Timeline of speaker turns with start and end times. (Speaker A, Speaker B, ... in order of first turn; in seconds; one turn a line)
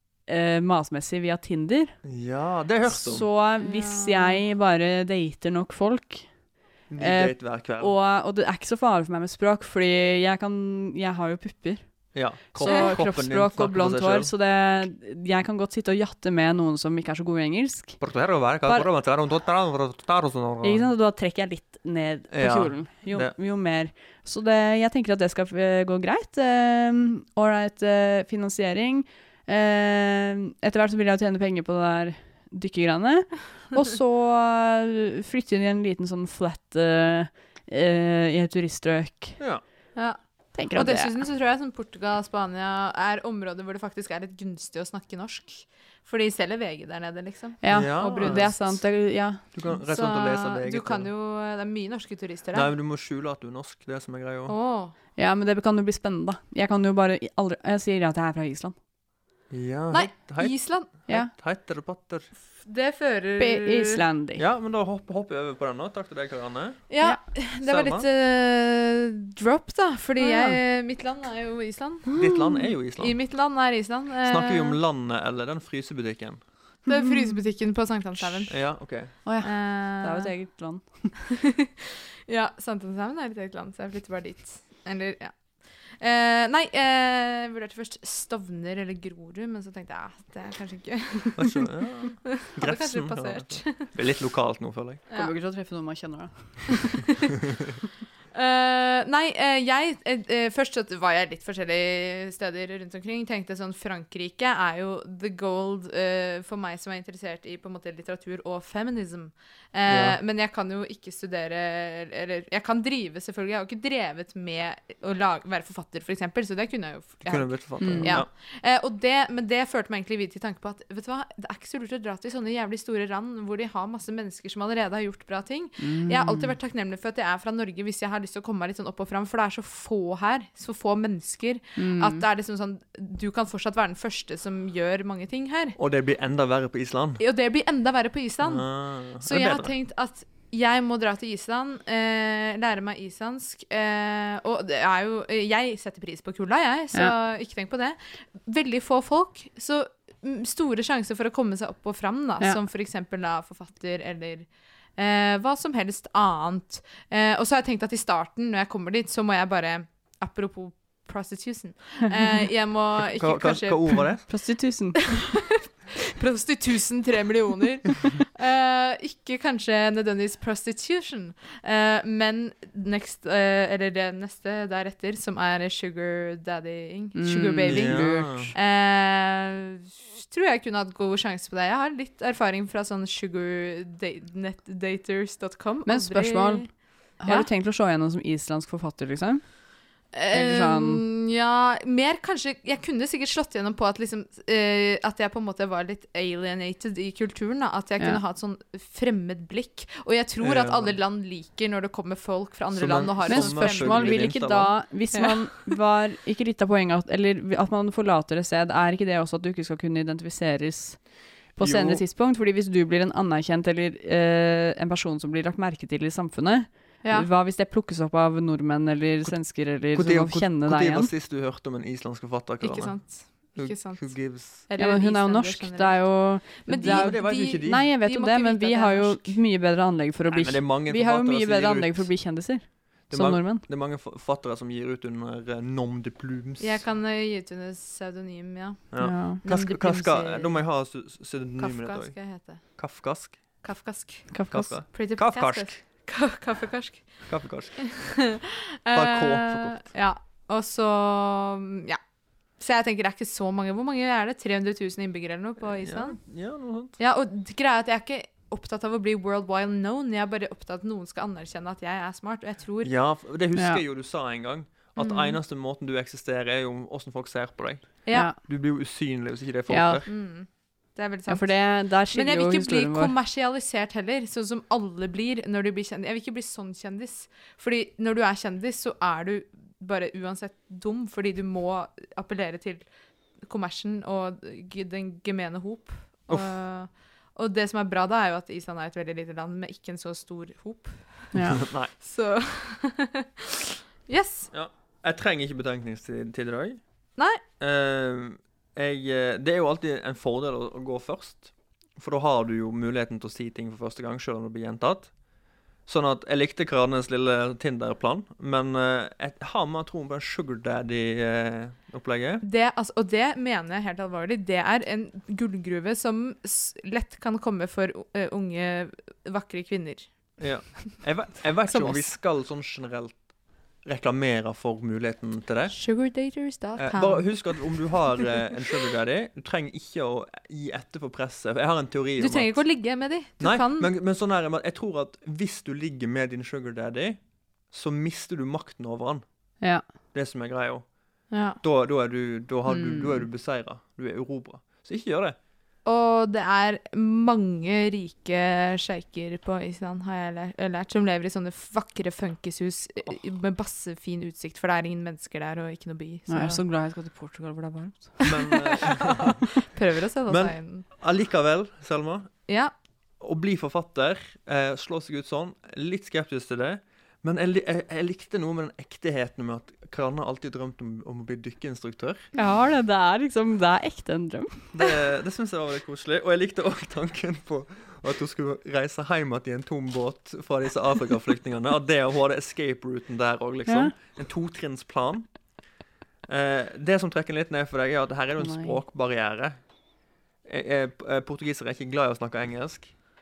Speaker A: 0.3-1.9
Speaker B: 2.0-3.3
Speaker A: 2.8-6.3
Speaker C: 3.6-4.4
Speaker B: 6.9-7.9
Speaker A: 7.0-11.8
Speaker B: 12.1-14.3
Speaker A: 12.5-18.0
Speaker C: 12.6-12.9
Speaker B: 18.0-20.9
Speaker A: 20.6-39.4
Speaker B: 22.3-23.3
Speaker A: 40.5-41.2
Speaker C: 40.7-48.8
Speaker A: 47.6-49.4
Speaker B: 47.7-48.8
Speaker B: 49.5-51.1
Speaker C: 49.7-52.7
Speaker B: 52.5-54.5
Speaker C: 54.5-54.9
Speaker A: 55.2-58.7
Speaker B: 59.5-62.3
Speaker C: 59.9-60.9
Speaker C: 62.6-64.0
Speaker A: 63.4-64.4
Speaker B: 64.4-66.9
Speaker C: 66.9-72.1
Speaker B: 67.6-68.1
Speaker A: 70.2-70.6
Speaker A: 72.1-72.7
Speaker B: 72.1-73.2
Speaker C: 73.0-74.8
Speaker B: 74.2-76.4
Speaker C: 76.9-78.8
Speaker A: 76.9-77.3
Speaker B: 78.5-79.1
Speaker A: 79.2-81.1
Speaker C: 79.4-80.3
Speaker C: 82.3-85.4
Speaker C: 86.0-91.7
Speaker B: 91.3-95.0
Speaker C: 92.2-93.9
Speaker A: 95.1-97.0
Speaker C: 98.3-135.8
Speaker B: 109.9-110.2
Speaker B: 117.2-118.3
Speaker A: 117.8-118.2
Speaker A: 125.8-126.5
Speaker A: 131.8-132.2
Speaker B: 135.8-137.2
Speaker C: 137.2-164.2
Speaker B: 138.4-139.7
Speaker B: 163.1-164.2
Speaker A: 164.3-165.2
Speaker C: 165.2-187.5
Speaker A: 177.1-178.5
Speaker B: 177.7-178.5
Speaker A: 185.8-189.5
Speaker C: 190.1-204.3
Speaker A: 190.3-191.0
Speaker B: 200.4-201.0
Speaker B: 202.7-204.7
Speaker A: 203.3-211.0
Speaker A: 211.6-221.1
Speaker B: 211.6-212.0
Speaker B: 219.9-224.6
Speaker C: 222.6-229.4
Speaker A: 224.8-233.6
Speaker B: 226.7-227.9
Speaker B: 230.3-232.1
Speaker B: 233.1-236.8
Speaker C: 236.6-240.6
Speaker B: 238.9-243.4
Speaker A: 239.0-239.4
Speaker C: 241.6-242.6
Speaker C: 243.6-244.3
Speaker A: 244.3-244.7
Speaker B: 244.5-245.8
Speaker C: 244.9-247.2
Speaker B: 247.2-248.2
Speaker C: 248.0-252.0
Speaker B: 248.9-249.9
Speaker C: 252.6-256.2
Speaker B: 255.6-256.9
Speaker C: 257.0-262.9
Speaker B: 262.8-270.1
Speaker A: 263.5-263.8
Speaker C: 264.9-265.4
Speaker C: 268.0-268.3
Speaker A: 269.7-270.0
Speaker C: 270.1-271.6
Speaker A: 271.3-273.1
Speaker C: 272.1-282.9
Speaker C: 283.5-294.5
Speaker A: 291.3-291.6
Speaker B: 291.5-291.9
Speaker B: 294.5-296.8
Speaker B: 297.6-305.1
Speaker B: 305.9-312.4
Speaker C: 312.4-320.1
Speaker B: 320.4-323.2
Speaker C: 321.6-322.1
Speaker B: 323.8-325.8
Speaker C: 325.7-327.9
Speaker B: 326.8-332.6
Speaker C: 332.2-333.9
Speaker B: 333.4-337.2
Speaker B: 337.7-339.2
Speaker B: 340.1-340.8
Speaker C: 341.3-341.6
Speaker B: 341.6-345.4
Speaker A: 342.7-343.2
Speaker C: 345.8-356.6
Speaker A: 356.3-358.3
Speaker B: 358.2-359.4
Speaker C: 358.7-360.9
Speaker B: 360.3-362.3
Speaker C: 362.5-362.7
Speaker B: 363.2-372.2
Speaker A: 372.3-374.7
Speaker B: 374.7-385.3
Speaker A: 383.7-383.9
Speaker B: 386.3-389.6
Speaker A: 388.4-388.8
Speaker B: 390.4-392.9